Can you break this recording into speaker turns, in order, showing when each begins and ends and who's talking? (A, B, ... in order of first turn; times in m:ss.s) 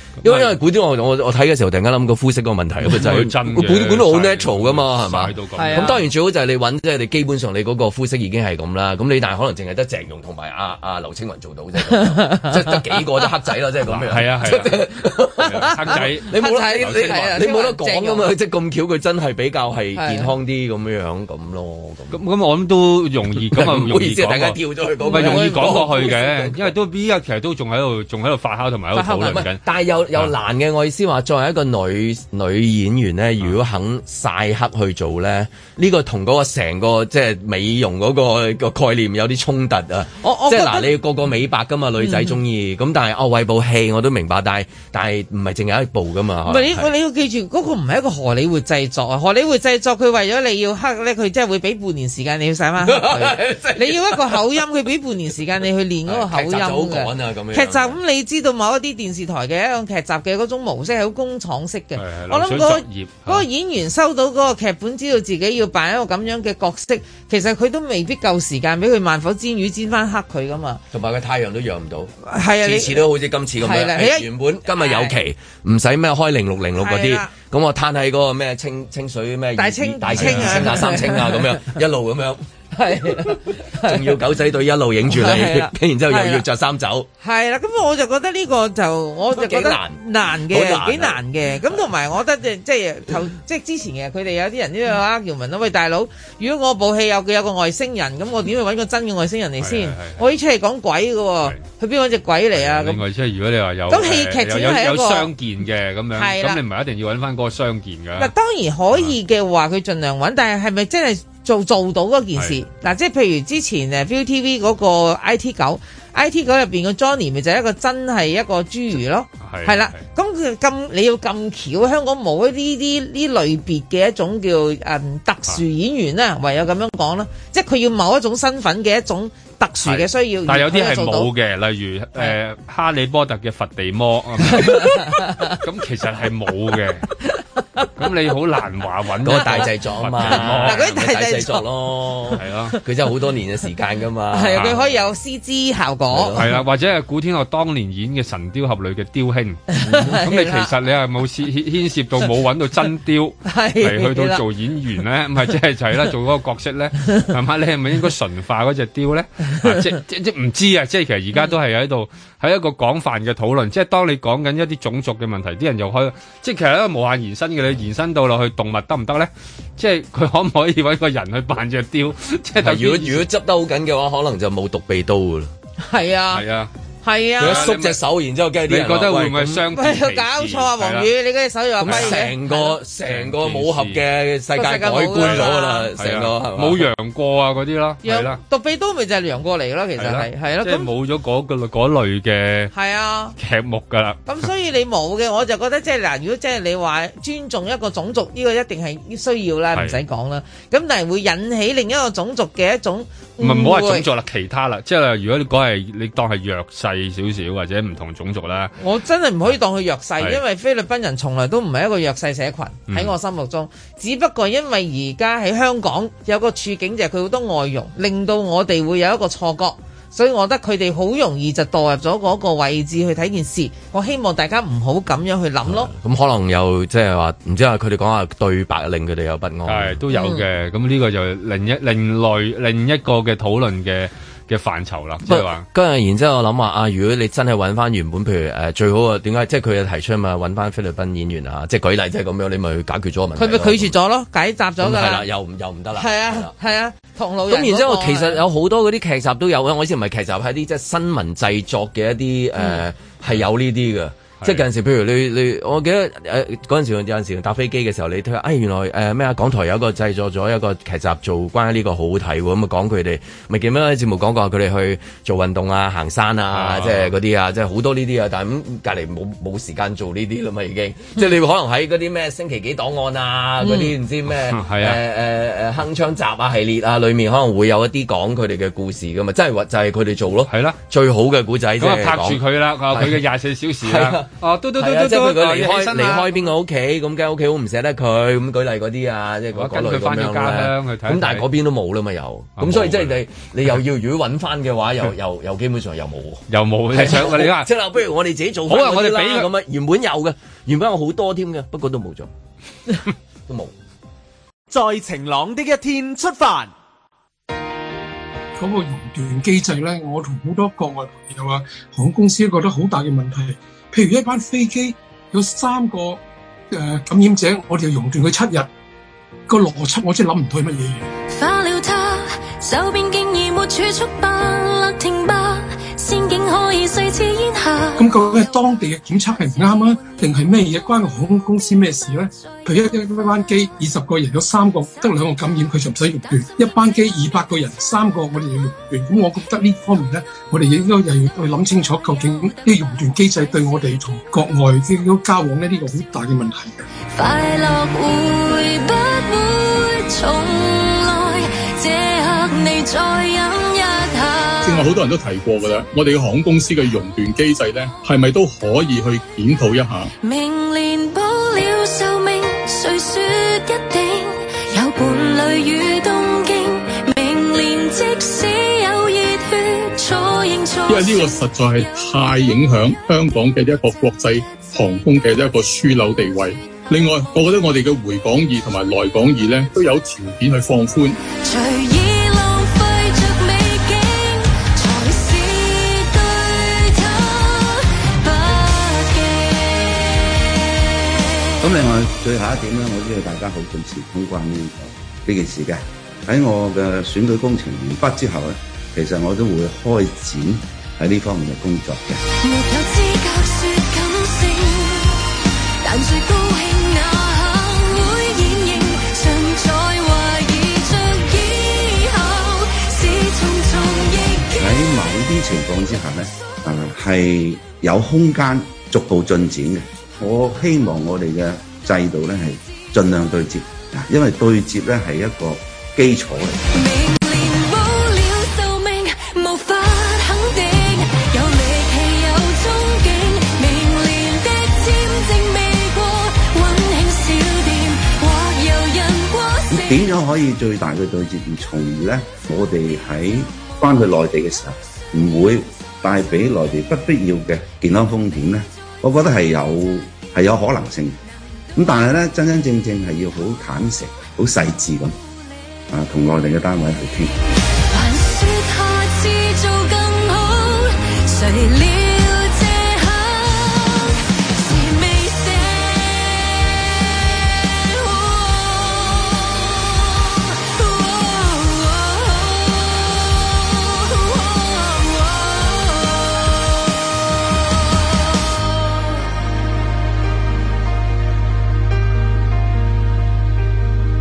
0:00.2-0:00.6 A
0:00.2-0:22.2 B
0:02.8-0:06.0 A
0:05.6-0:06.0 C
0:11.9-0:12.6 C
0:13.8-0:14.8 A
0:15.4-0:18.3 C
0:15.4-0:17.4 A
0:19.9-0:20.3 C
0:22.1-0:29.6 A
0:23.4-0:26.7 B
0:25.0-0:26.2 C
0:28.9-0:29.4 C
0:29.2-0:46.9 B
0:40.2-0:41.0 C
0:42.0-0:42.4 C
0:46.5-1:10.8 C
0:52.8-0:54.4 B
0:56.0-0:58.0 B
1:02.0-1:03.4 A
1:10.9-1:22.4 B
1:12.2-1:13.1 C
1:13.6-1:15.2 C
1:16.8-1:17.3 C
1:19.6-1:21.6 C
1:20.2-1:20.6 A
1:22.7-1:24.2 C
1:23.0-1:27.1 B
1:25.1-1:26.4 C
1:27.2-1:43.0 C
1:29.3-1:31.8 B
1:39.6-1:40.2 A
1:42.5-1:48.3 A
1:43.9-1:45.3 C
1:46.2-1:46.6 C
1:48.2-2:11.3 C
1:59.4-2:00.0 A
2:09.9-2:17.1 A
2:14.6-2:15.6 C
2:18.0-2:20.9 A
2:19.2-2:24.8 B
2:19.3-2:19.6 C
2:20.2-2:21.7 C
2:22.4-2:22.8 A
2:24.3-2:26.4 C
2:24.5-2:24.8 A
2:26.1-2:26.5 B
2:26.4-2:53.3 A
2:29.7-2:30.7 C
2:29.8-2:30.2 B
2:33.4-2:34.4 C
2:52.6-2:55.5 B
2:55.8-2:56.4 C
2:56.3-2:56.7 A
2:57.0-2:57.7 C
2:57.4-2:58.0 A
2:57.4-2:59.6 B
2:58.6-3:01.1 A
2:59.7-3:02.7 C
3:01.8-3:02.2 A
3:01.8-3:06.8 B
3:03.0-3:04.0 A
3:04.6-3:05.9 C
3:05.2-3:08.4 A
3:08.0-3:10.9 C
3:10.0-3:12.7 A
3:12.7-3:13.3 C
3:13.4-3:14.4 A
3:14.3-3:24.0 C
3:23.4-3:28.7 A
3:28.8-3:45.9 C
3:32.9-3:33.1 A
3:45.6-3:50.0 B
3:49.7-3:55.6 A
3:50.1-3:50.4 C
3:55.2-4:03.9 B
4:03.4-4:05.2 C
4:04.8-4:06.5 B
4:06.0-4:08.4 C
4:07.5-4:43.2 B
4:26.5-4:27.1 A
4:33.6-4:33.9 C
4:34.4-4:35.0 A
4:40.5-4:40.8 A
4:41.8-4:46.4 A
4:43.8-5:02.3 B
4:49.5-4:51.4 A
4:52.6-4:53.2 A
4:56.5-4:57.7 A
4:58.7-4:59.5 A
5:03.5-5:03.7 B
5:04.7-5:06.7 D
5:08.6-5:16.2 E
5:16.7-5:18.7 E
5:19.5-5:21.1 E
5:21.3-5:28.1 F
5:28.0-5:46.9 E
5:47.1-5:54.9 F
5:54.6-6:00.1 G
6:00.2-6:11.4 F
6:10.9-6:21.2 G
6:21.4-6:30.4 F
6:31.0-6:31.4 F
6:31.6-6:42.2 H
6:42.4-6:45.2 F
6:45.8-6:54.7 F
6:54.6-7:06.6 H
7:06.7-7:20.0 F
7:19.7-7:31.2 H
7:31.7-7:35.2 H
7:35.9-7:37.3 H
7:37.9-7:56.3 F